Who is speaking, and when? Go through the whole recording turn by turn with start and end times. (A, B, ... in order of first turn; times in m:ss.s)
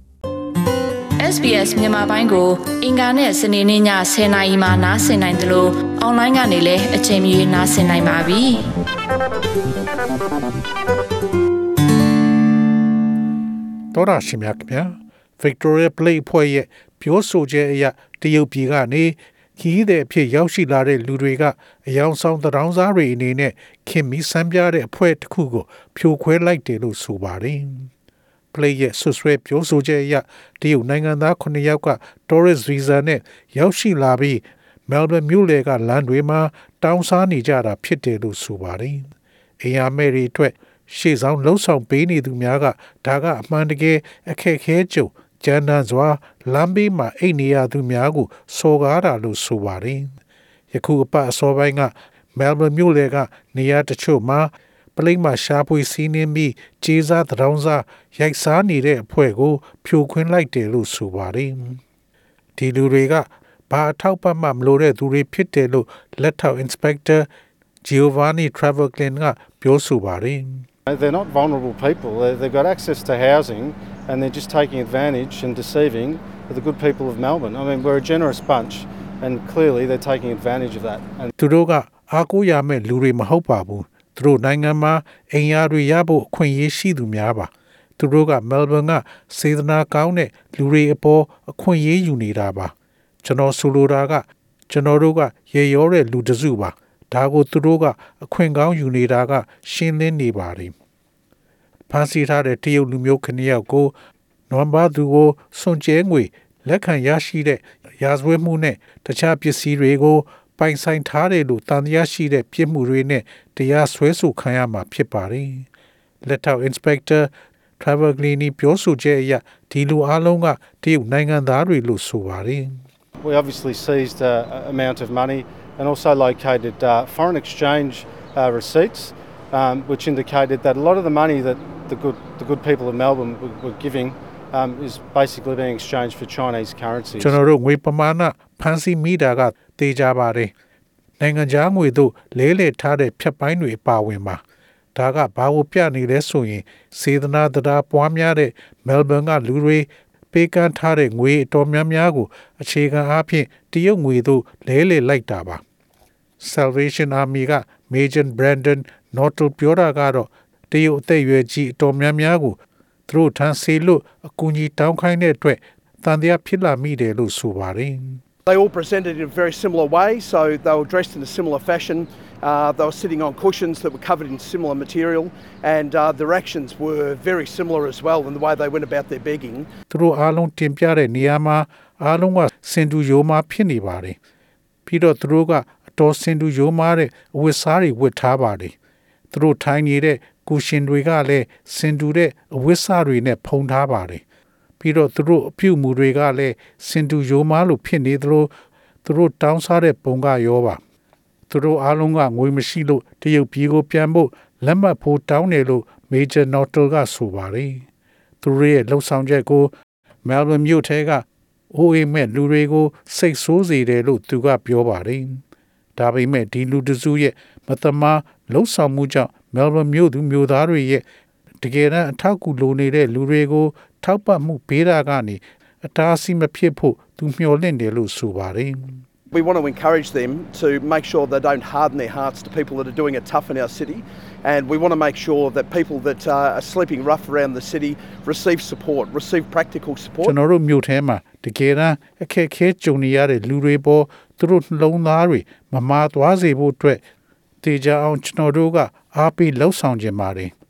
0:01.2-0:08.7 A
0:13.9-0:27.9 B
0:28.5-0:50.1 B
0:50.7-1:01.8 B
1:02.6-1:07.3 B
1:07.8-1:10.6 B
1:10.9-1:21.3 C
1:21.4-1:40.7 B
1:41.9-1:43.9 B
1:44.5-1:55.6 B
1:56.2-2:02.7 B
2:03.2-2:17.4 C
2:17.2-2:20.5 B
2:21.2-2:24.4 B
2:24.9-2:35.6 B
2:36.4-2:48.2 B
2:48.5-2:59.7 D
2:59.9-3:04.2 B
3:04.8-3:08.8 B
3:09.3-3:14.2 B
3:14.8-3:18.5 B
3:19.0-3:20.8 B
3:21.5-3:27.8 B
3:28.4-3:29.7 B
3:30.2-3:35.4 B
3:36.0-3:41.0 B
3:41.6-3:49.0 B
3:49.3-4:00.3 D
4:00.2-4:07.0 B
4:07.6-4:10.5 B